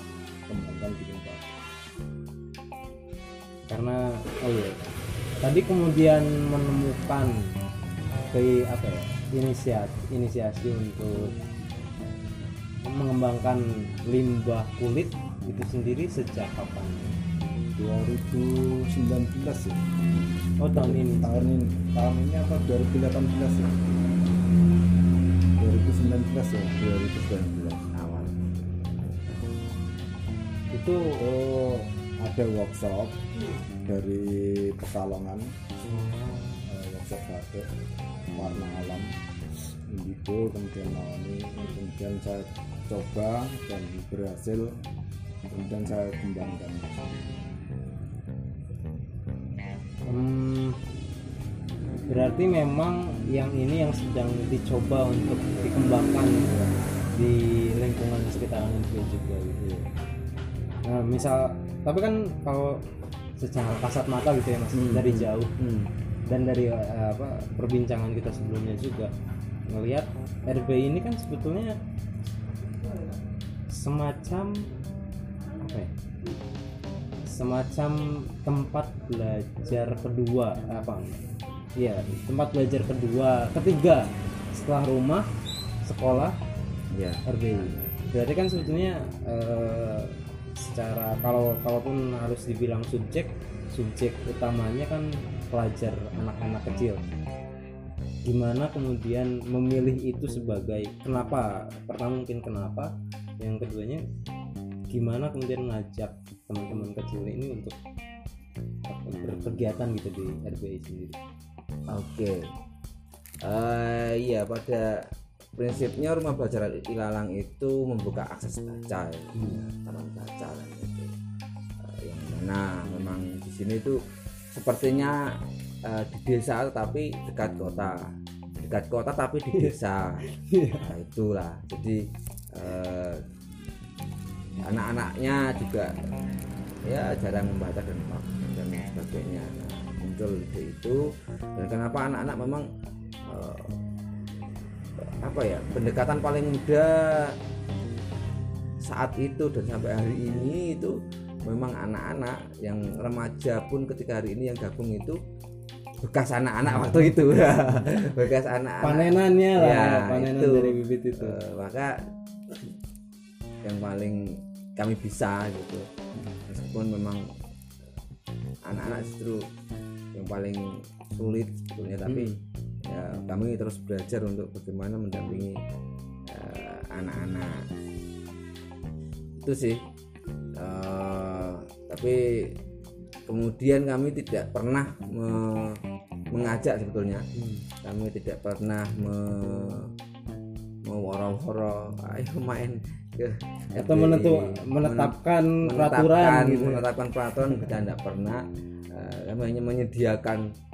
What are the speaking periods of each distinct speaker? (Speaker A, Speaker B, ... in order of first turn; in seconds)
Speaker A: 0.5-1.6, 17.7-24.1, 25.6-26.9, 31.1-33.2, 33.8-35.5, 36.6-37.7, 38.3-39.1, 39.9-44.8, 45.5-47.5
Speaker B: 3.7-7.4, 8.3-11.3, 12.8-17.1, 20.6-21.3, 30.7-31.2, 35.9-36.7, 50.1-50.8, 52.1-56.5, 57.1-59.6, 60.9-62.8, 63.4-65.5, 66.3-69.1, 69.7-71.8, 73.7-74.6, 75.6-75.9, 77.2-81.2, 81.8-85.3, 85.8-86.4, 87.2-97.1, 98.2-104.0, 104.9-107.8, 108.9-111.2, 119.3-119.6, 130.2-130.9, 158.8-161.3, 172.1-172.4, 187.3-187.6, 193.7-196.8
Speaker C: 26.8-28.4, 64.7-65.9, 86.9-87.9, 111.9-112.5, 113.4-121.1, 121.8-124.0, 124.5-130.2, 130.8-133.2, 134.6-135.9, 136.8-142.7, 143.3-143.8, 145.2-147.3, 148.8-155.2, 156.0-162.1, 163.6-165.9, 166.5-167.3, 168.6-169.5, 170.1-172.3, 172.8-175.6, 176.3-177.7, 179.4-179.8, 180.6-182.5, 183.3-185.8, 186.3-187.2, 187.8-189.9, 190.8-200.5